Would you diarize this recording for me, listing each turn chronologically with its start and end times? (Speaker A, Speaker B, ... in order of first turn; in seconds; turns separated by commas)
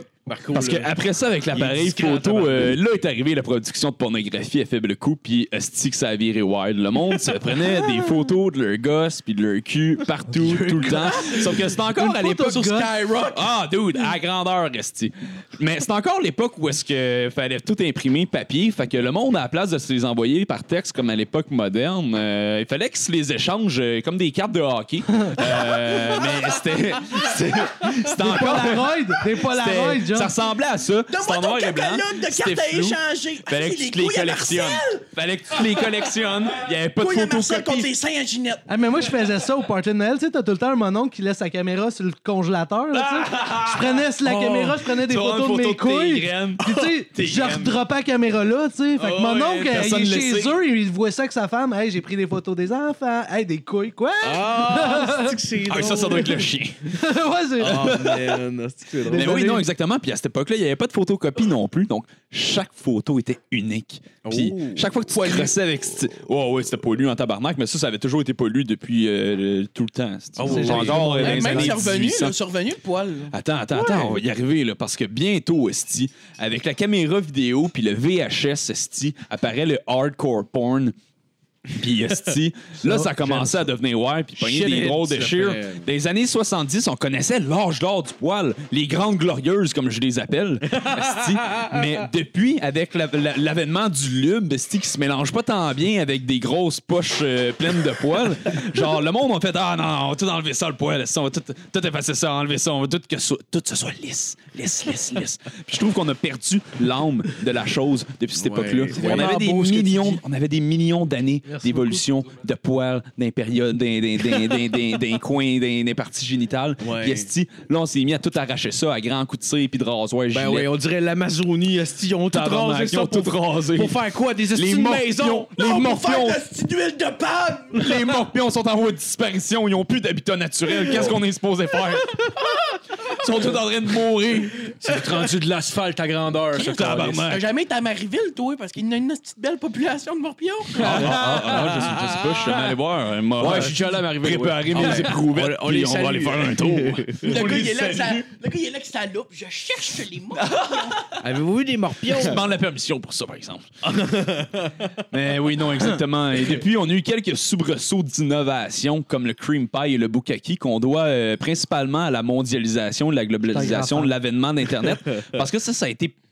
Speaker A: 0.3-0.9, Speaker B: 0.5-12.7, Speaker A: 1.5-2.7, Speaker C: 10.4-12.9, Speaker D: 11.2-11.5, Speaker D: 12.3-13.5, Speaker B: 13.3-37.9, Speaker C: 28.1-30.4, Speaker D: 31.1-35.1, Speaker D: 37.0-38.7, Speaker C: 38.7-55.5, Speaker B: 42.9-47.8, Speaker B: 49.0-50.6, Speaker A: 54.2-56.5, Speaker B: 55.6-57.0, Speaker C: 56.9-58.0, Speaker B: 57.6-58.4, Speaker A: 57.6-59.4, Speaker C: 59.0-59.6, Speaker B: 59.1-72.3, Speaker A: 64.2-65.5, Speaker A: 70.4-71.6, Speaker C: 70.4-71.7, Speaker E: 70.6-71.0, Speaker D: 71.2-73.3, Speaker B: 73.3-81.0, Speaker A: 73.8-74.2, Speaker B: 81.8-120.7, Speaker A: 83.0-83.6, Speaker A: 84.4-85.9, Speaker A: 90.8-91.7, Speaker A: 108.4-110.1, Speaker E: 109.0-109.3, Speaker A: 116.8-117.3, Speaker A: 120.3-125.5, Speaker B: 122.3-126.4, Speaker D: 125.6-128.0, Speaker B: 127.7-135.0, Speaker E: 134.8-137.3, Speaker B: 136.6-137.5, Speaker D: 137.3-141.2, Speaker B: 140.8-148.3, Speaker A: 141.0-142.2, Speaker E: 143.4-145.2, Speaker A: 144.7-147.4, Speaker D: 147.2-151.0, Speaker B: 150.4-151.2, Speaker A: 151.2-152.4, Speaker B: 152.0-153.8, Speaker A: 153.9-154.7, Speaker B: 155.1-166.2, Speaker C: 163.5-164.1